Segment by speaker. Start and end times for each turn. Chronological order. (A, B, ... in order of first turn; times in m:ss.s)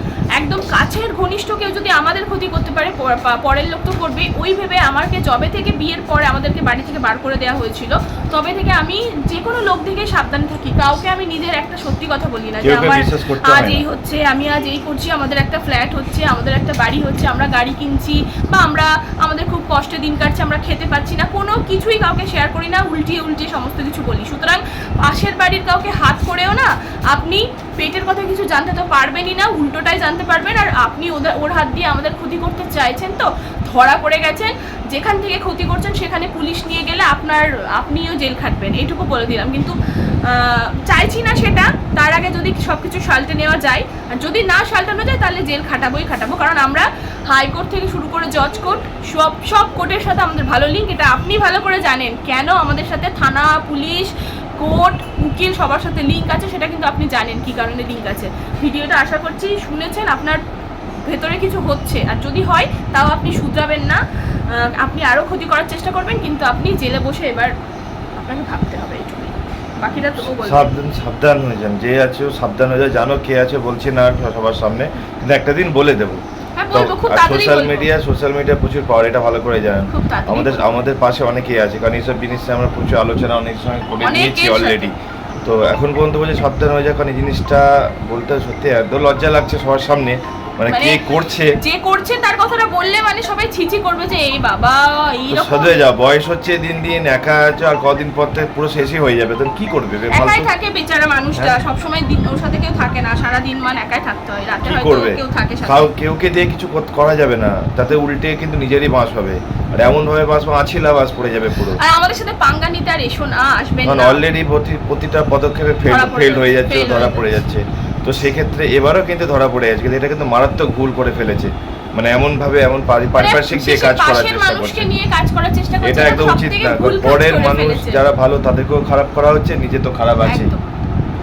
0:00.4-1:00.4 A
0:12.6-0:13.8 B
1:01.0-1:07.5 A
1:08.2-1:10.7 A
1:10.2-1:16.2 B
1:16.6-1:17.9 A
1:16.7-1:31.5 B
1:19.9-1:20.7 A
1:24.0-1:24.9 A
1:30.7-1:31.0 A
1:31.6-1:35.7 A
1:35.3-1:40.5 B
1:40.1-1:45.9 A
1:44.6-1:51.8 B
1:51.6-1:54.2 A
1:53.8-2:04.9 B
1:55.8-1:57.4 A
2:03.2-2:08.0 A
2:05.8-2:10.5 B
2:10.3-2:10.7 A